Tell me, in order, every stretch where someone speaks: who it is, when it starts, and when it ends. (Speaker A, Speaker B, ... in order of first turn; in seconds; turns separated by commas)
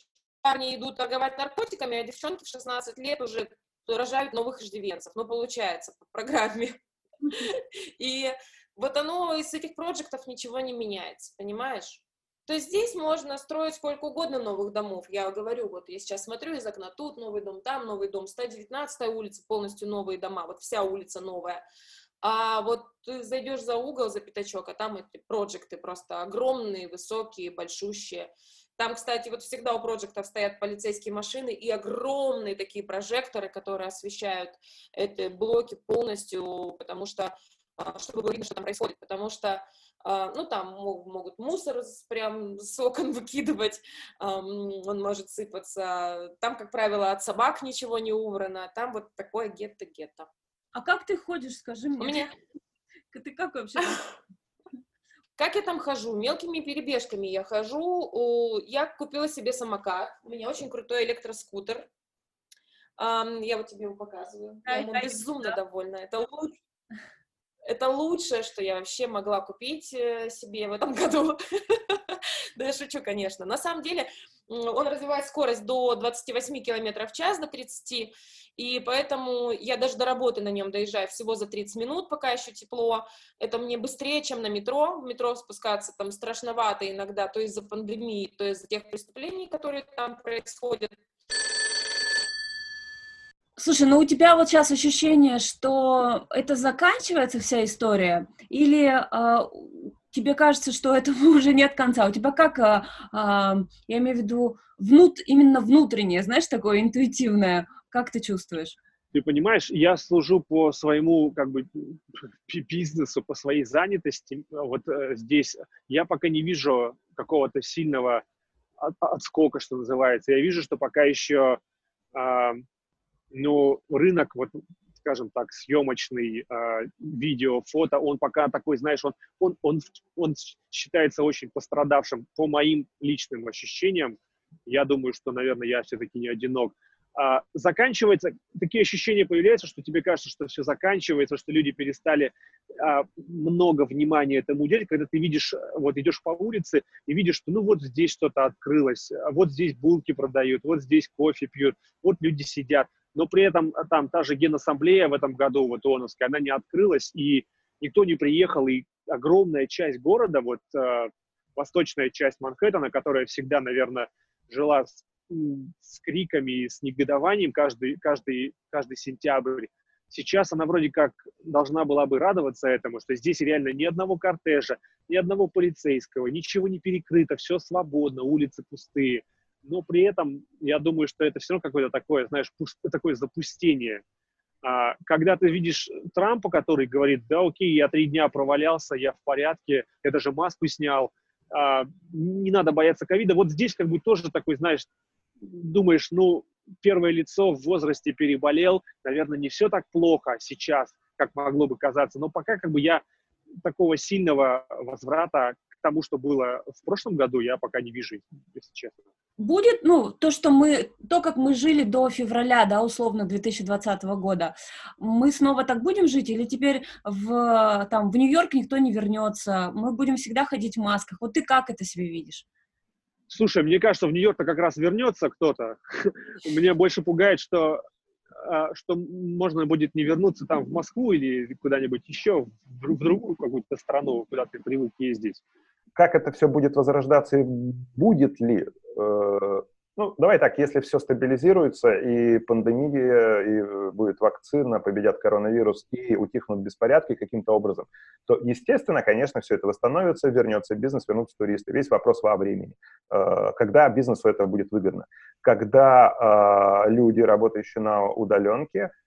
Speaker A: 0.4-6.8, Speaker A: 7.3-21.6, Speaker A: 22.2-50.3, Speaker B: 50.7-52.3, Speaker A: 52.0-52.3, Speaker B: 53.1-54.1, Speaker A: 55.4-61.9, Speaker A: 63.0-66.5, Speaker B: 64.7-65.5, Speaker A: 67.7-90.9, Speaker B: 93.6-108.8, Speaker C: 109.1-118.2, Speaker C: 118.8-121.6, Speaker C: 122.1-122.6, Speaker C: 123.3-184.0, Speaker C: 184.6-194.9, Speaker C: 195.4-203.0, Speaker C: 203.6-209.0, Speaker B: 209.4-222.4, Speaker C: 223.3-227.8, Speaker C: 228.4-235.4, Speaker D: 235.9-258.9